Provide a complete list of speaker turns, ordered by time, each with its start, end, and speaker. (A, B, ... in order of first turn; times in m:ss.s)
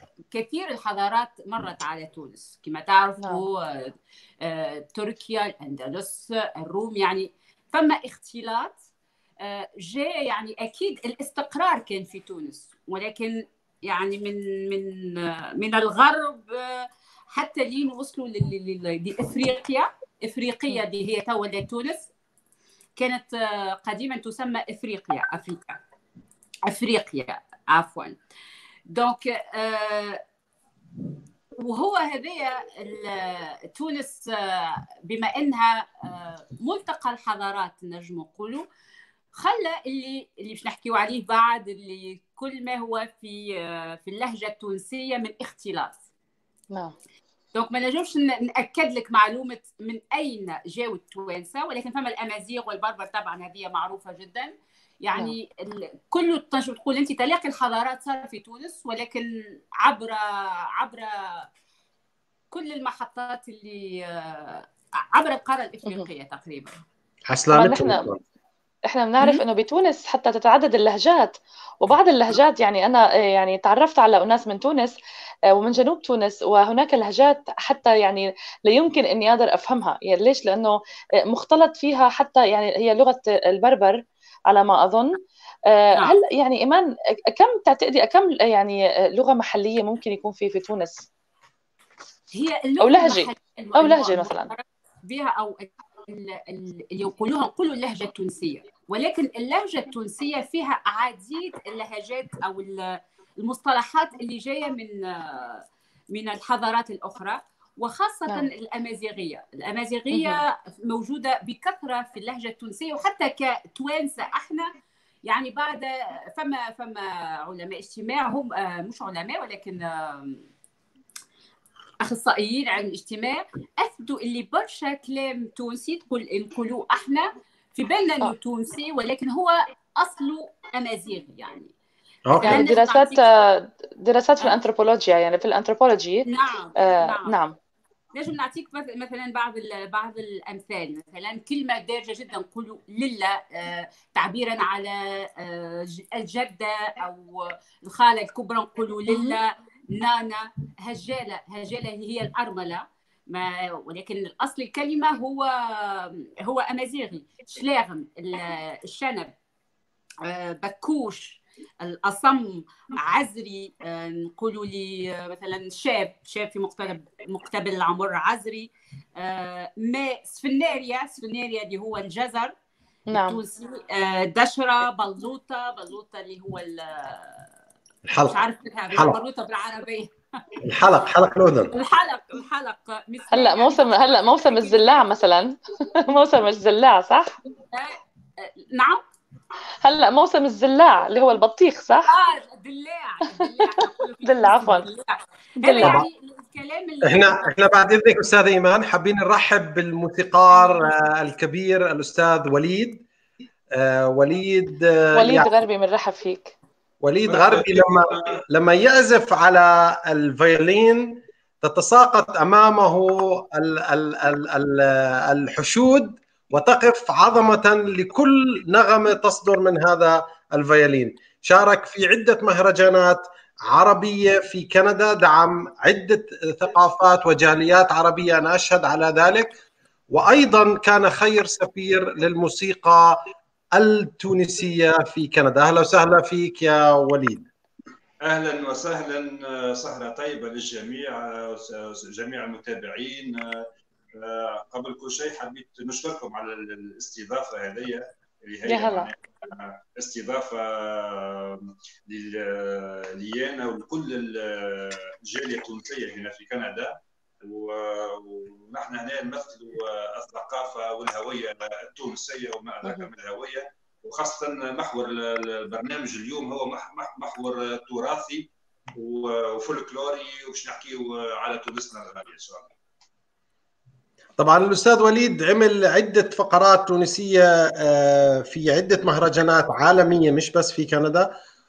0:00.3-0:08.8 A
0:09.4-0:22.1 A
0:23.0-0:25.8 A
0:26.7-0:28.2 A
0:28.9-0:30.2 A
0:31.6-0:38.7 A
0:39.4-0:46.0 A
0:47.5-1:01.5 A
1:02.5-1:06.8 A
1:07.3-1:08.2 B
1:07.5-1:08.1 C
1:08.9-1:15.0 C
1:15.5-1:31.1 C
1:32.3-1:54.7 A
1:32.8-1:34.5 C
1:50.1-1:50.4 C
1:55.2-2:00.5 A
2:02.0-2:11.7 A
2:12.3-2:12.6 B
2:12.4-2:13.2 A
2:12.4-2:17.6 C
2:16.3-2:17.4 A
2:18.1-2:39.3 A
2:40.2-2:52.5 A
2:53.1-2:53.4 C
2:53.1-2:57.5 A
2:58.1-2:58.4 B
2:58.2-3:00.1 A
3:00.6-3:01.7 B
3:01.7-3:05.0 A
3:03.3-3:07.4 C
3:07.7-3:09.0 A
3:09.8-3:12.1 C
3:12.0-3:17.5 A
3:14.2-3:14.9 C
3:15.6-3:16.0 C
3:15.8-3:16.1 B
3:17.0-3:23.1 B
3:23.7-3:25.5 B
3:25.2-3:26.6 C
3:27.0-3:49.6 B
3:27.2-3:28.4 D
3:50.1-3:53.2 B
3:53.7-3:57.5 B
3:58.2-4:32.7 D
4:08.7-4:09.1 C
4:22.8-4:23.1 C
4:34.4-4:41.3 B